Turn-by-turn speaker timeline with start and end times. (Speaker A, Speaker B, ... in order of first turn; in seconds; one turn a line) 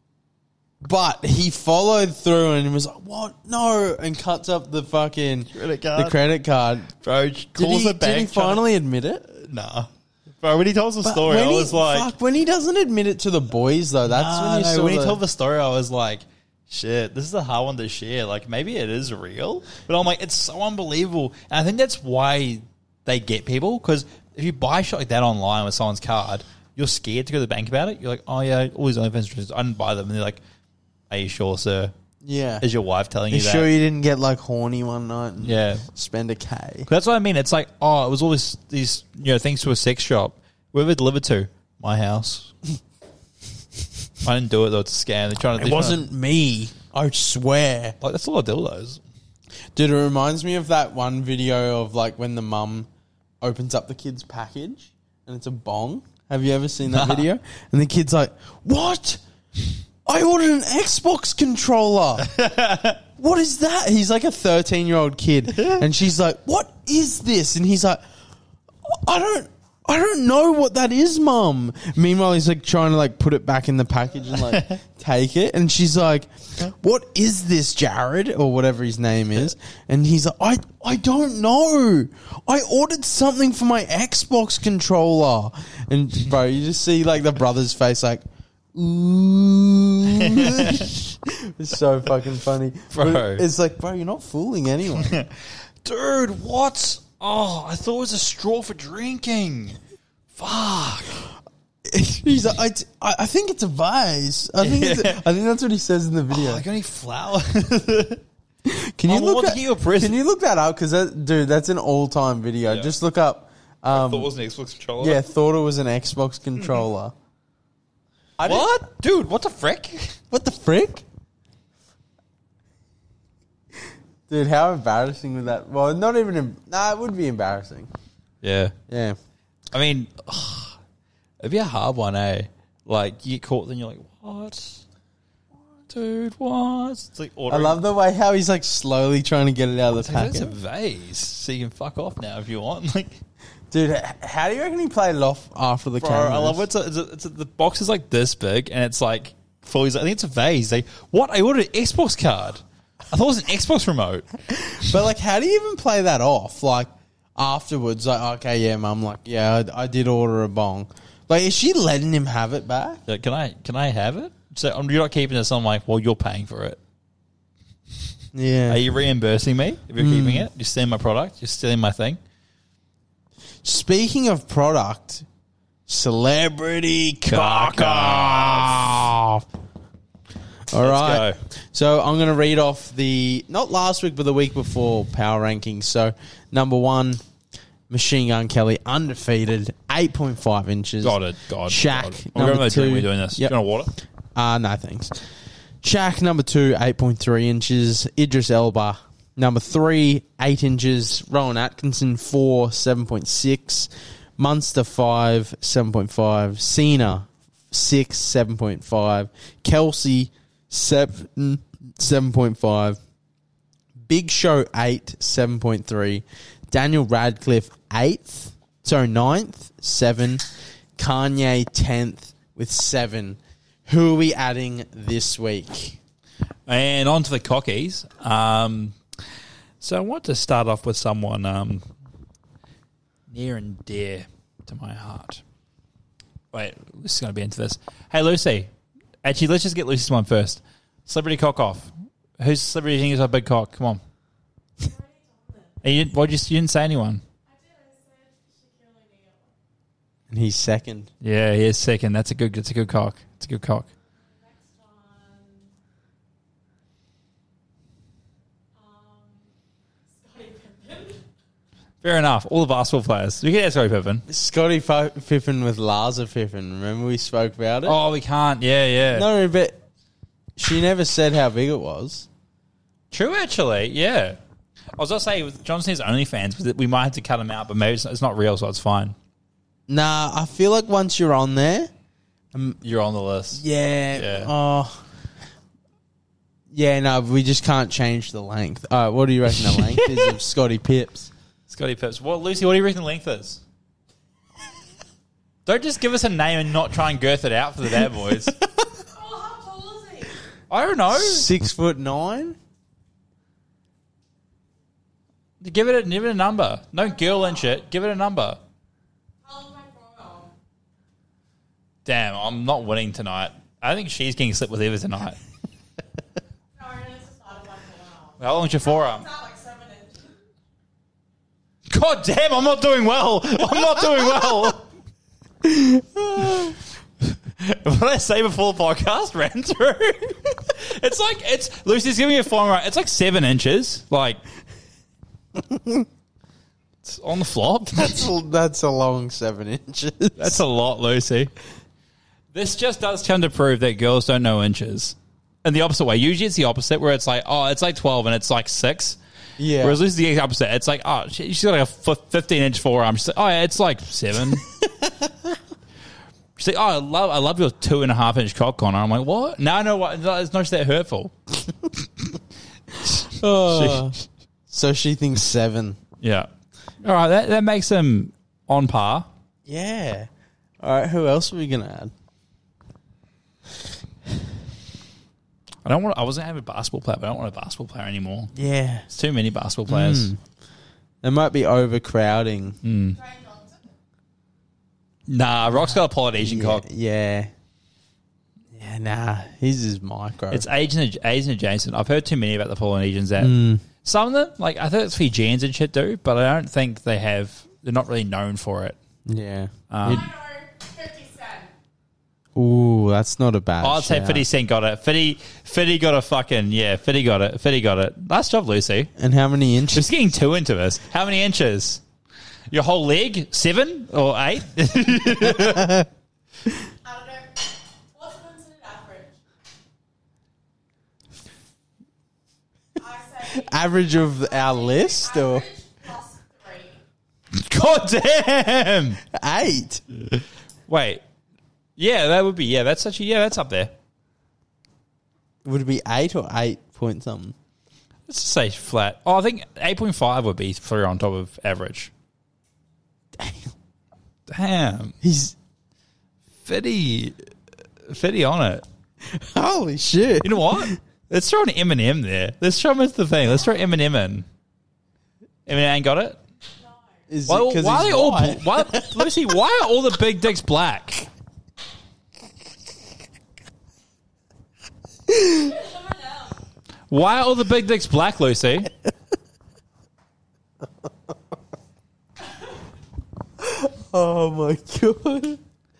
Speaker A: 0.8-6.9
Speaker B: 5.5-6.2
Speaker B: 7.0-8.7
Speaker A: 7.5-9.3
Speaker B: 9.3-12.1
Speaker A: 11.0-15.2
Speaker B: 14.0-30.4
Speaker B: 31.1-31.9
Speaker A: 32.2-32.6
Speaker B: 32.6-33.7
Speaker A: 33.3-36.9
Speaker B: 35.4-35.8
Speaker B: 36.9-42.5
Speaker B: 44.2-46.0
Speaker A: 45.6-48.0
Speaker B: 48.0-49.0
Speaker A: 49.7-52.9
Speaker A: 53.4-59.2
Speaker B: 56.9-57.3
Speaker A: 60.0-62.3
Speaker B: 62.2-63.0
Speaker A: 63.1-68.0
Speaker B: 65.5-65.8
Speaker A: 68.9-95.2
Speaker B: 74.3-74.8
Speaker B: 90.2-90.9
Speaker B: 92.9-93.4
Speaker B: 94.9-99.8
Speaker B: 100.3-101.2
Speaker A: 101.8-106.6
Speaker B: 104.6-105.2
Speaker B: 106.3-108.2
Speaker A: 108.6-114.3
Speaker B: 109.1-110.2
Speaker B: 112.7-112.9
Speaker B: 113.9-115.2
Speaker A: 115.0-117.1
Speaker B: 116.6-116.8
Speaker A: 118.4-118.7
Speaker B: 118.4-120.2
Speaker A: 120.3-121.0
Speaker A: 124.3-127.9
Speaker B: 128.4-128.7
Speaker A: 128.9-129.2
Speaker B: 129.7-130.8
Speaker B: 131.4-134.8
Speaker B: 135.9-137.8
Speaker A: 137.5-140.5
Speaker B: 140.0-143.2
Speaker A: 143.7-146.6
Speaker B: 146.0-154.3
Speaker A: 154.5-163.0
Speaker B: 163.1-166.8
Speaker A: 168.3-168.8
Speaker B: 168.7-172.2
Speaker A: 170.0-170.5
Speaker A: 173.6-175.2
Speaker A: 175.9-179.4
Speaker B: 177.2-179.0
Speaker A: 180.7-187.2
Speaker B: 180.8-181.4
Speaker A: 187.9-193.5
Speaker B: 191.0-193.9
Speaker A: 194.3-195.2
Speaker A: 195.8-213.0
Speaker A: 214.1-220.4
Speaker A: 221.0-226.0
Speaker B: 226.7-229.0
Speaker B: 229.8-231.9
Speaker B: 233.3-235.4
Speaker B: 236.5-238.7
Speaker B: 239.2-244.0
Speaker C: 244.8-245.8
Speaker B: 245.8-247.2
Speaker C: 247.4-249.5
Speaker A: 250.3-251.1
Speaker B: 251.2-253.9
Speaker C: 254.2-255.7
Speaker C: 258.7-259.5
Speaker C: 260.1-261.2
Speaker B: 262.0-264.2
Speaker A: 264.3-268.0
Speaker B: 267.8-269.3
Speaker A: 269.1-269.8
Speaker A: 270.6-272.3
Speaker B: 273.1-274.4
Speaker B: 274.9-279.1
Speaker A: 279.9-281.9
Speaker B: 282.8-283.6
Speaker A: 283.5-285.0
Speaker B: 284.1-284.5
Speaker A: 286.7-291.3
Speaker B: 289.5-290.3
Speaker B: 291.7-293.6
Speaker B: 295.6-298.5
Speaker A: 298.5-298.8
Speaker C: 299.1-300.4
Speaker B: 300.7-301.5
Speaker A: 301.1-302.6
Speaker B: 305.6-308.6
Speaker C: 307.0-307.8
Speaker C: 309.4-310.5
Speaker B: 312.0-315.4
Speaker C: 316.7-320.3
Speaker B: 318.4-319.3
Speaker B: 321.9-324.8
Speaker A: 325.6-326.7
Speaker B: 326.4-326.7
Speaker B: 327.5-334.4
Speaker A: 335.6-336.1
Speaker B: 337.0-338.3
Speaker A: 337.9-340.6
Speaker B: 340.4-341.5
Speaker B: 342.5-349.2
Speaker A: 349.6-350.0
Speaker B: 349.8-354.6
Speaker A: 354.9-355.3
Speaker B: 356.6-361.3
Speaker A: 363.0-364.2
Speaker B: 363.6-364.1
Speaker A: 364.7-366.0
Speaker B: 366.2-366.5
Speaker B: 367.0-369.3
Speaker A: 369.6-370.3
Speaker A: 370.8-372.1
Speaker B: 375.8-378.5
Speaker A: 378.5-379.1
Speaker B: 379.1-380.3
Speaker A: 379.9-380.4
Speaker A: 381.2-382.8
Speaker B: 382.8-383.2
Speaker C: 383.1-383.9
Speaker B: 385.3-386.8
Speaker A: 385.8-387.5
Speaker A: 388.7-390.7
Speaker B: 390.5-398.9
Speaker A: 393.4-393.8
Speaker A: 399.3-400.3
Speaker B: 399.9-400.3
Speaker C: 400.0-401.7
Speaker A: 402.6-404.4
Speaker B: 403.8-409.1
Speaker A: 409.2-410.1
Speaker B: 409.9-412.0
Speaker B: 412.7-416.0
Speaker A: 415.2-416.1
Speaker C: 417.0-419.3
Speaker C: 423.0-427.0
Speaker A: 423.4-425.6
Speaker B: 427.5-429.2
Speaker A: 429.3-430.0
Speaker B: 430.9-431.2
Speaker B: 432.0-433.9
Speaker A: 435.6-437.5
Speaker B: 438.3-442.1
Speaker A: 443.4-443.7
Speaker B: 444.5-445.1
Speaker A: 445.2-445.5
Speaker B: 446.6-447.4
Speaker B: 448.0-448.8
Speaker A: 449.2-451.0
Speaker B: 450.4-454.4
Speaker B: 455.6-456.4
Speaker A: 457.3-459.3
Speaker B: 457.5-461.3
Speaker A: 465.3-465.7
Speaker C: 465.4-466.6
Speaker B: 467.1-468.9
Speaker A: 473.6-475.6